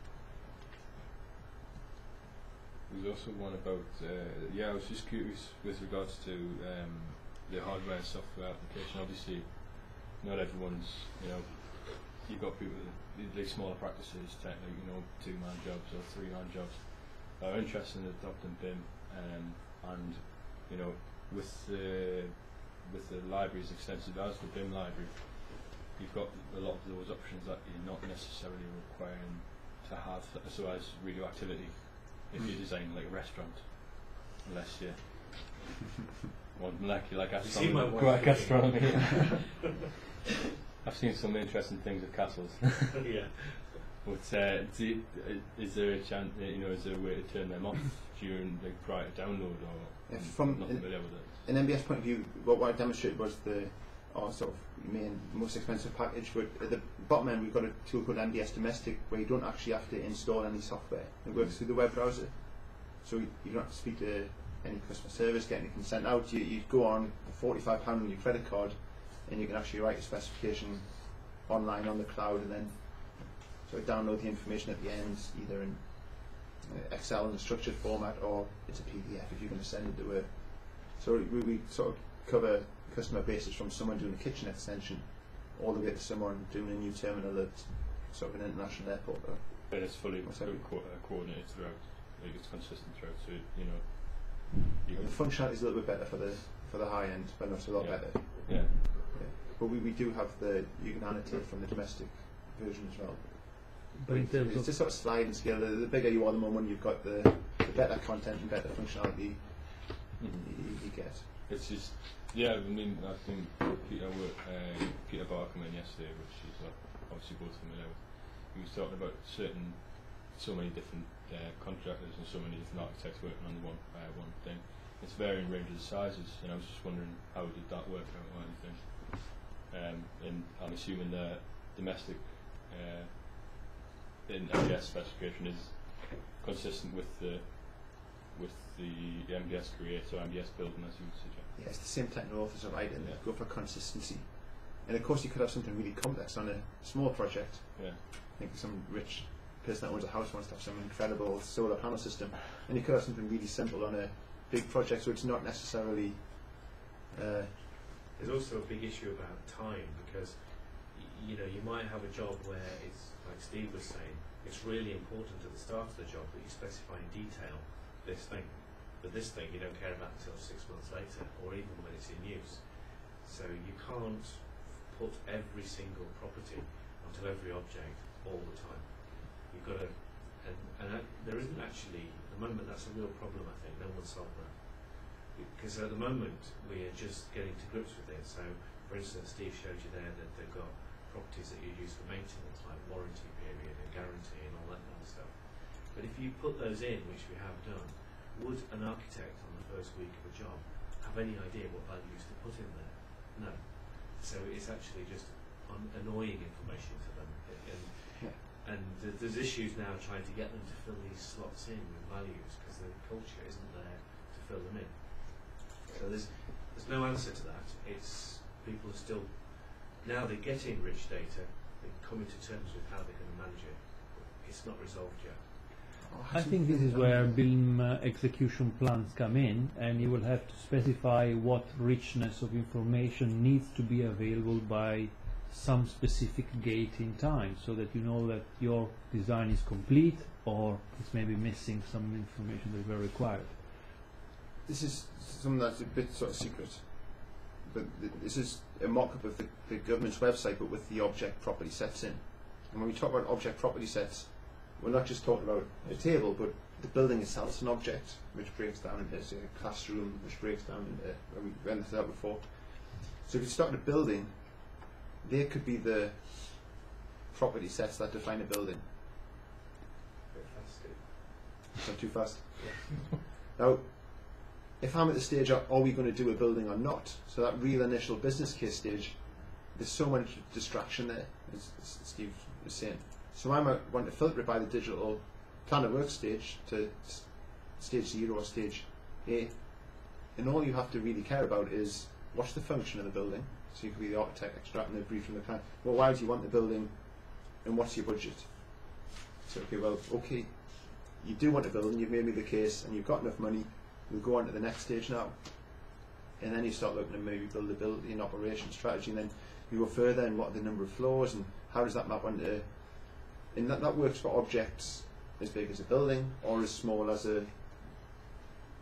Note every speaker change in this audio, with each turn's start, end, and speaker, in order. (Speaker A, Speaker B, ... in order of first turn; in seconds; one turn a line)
Speaker A: 2.9-35.7
Speaker A: 36.5-39.4
Speaker B: 37.4-39.5
Speaker A: 40.8-43.1
Speaker B: 43.0-43.9
Speaker A: 44.0-51.5
Speaker C: 50.0-90.7
Speaker A: 89.7-95.3
Speaker C: 94.9-111.3
Speaker A: 97.8-99.1
Speaker D: 103.9-104.7
Speaker A: 110.2-133.7
Speaker A: 134.2-141.6
Speaker C: 141.5-158.1
Speaker A: 142.9-143.2
Speaker A: 147.7-148.0
Speaker B: 158.1-225.9
Speaker C: 226.0-227.4
Speaker D: 226.3-243.6
Speaker C: 244.6-268.9
Speaker B: 270.3-271.3
Speaker C: 271.8-318.2
Speaker B: 272.6-272.9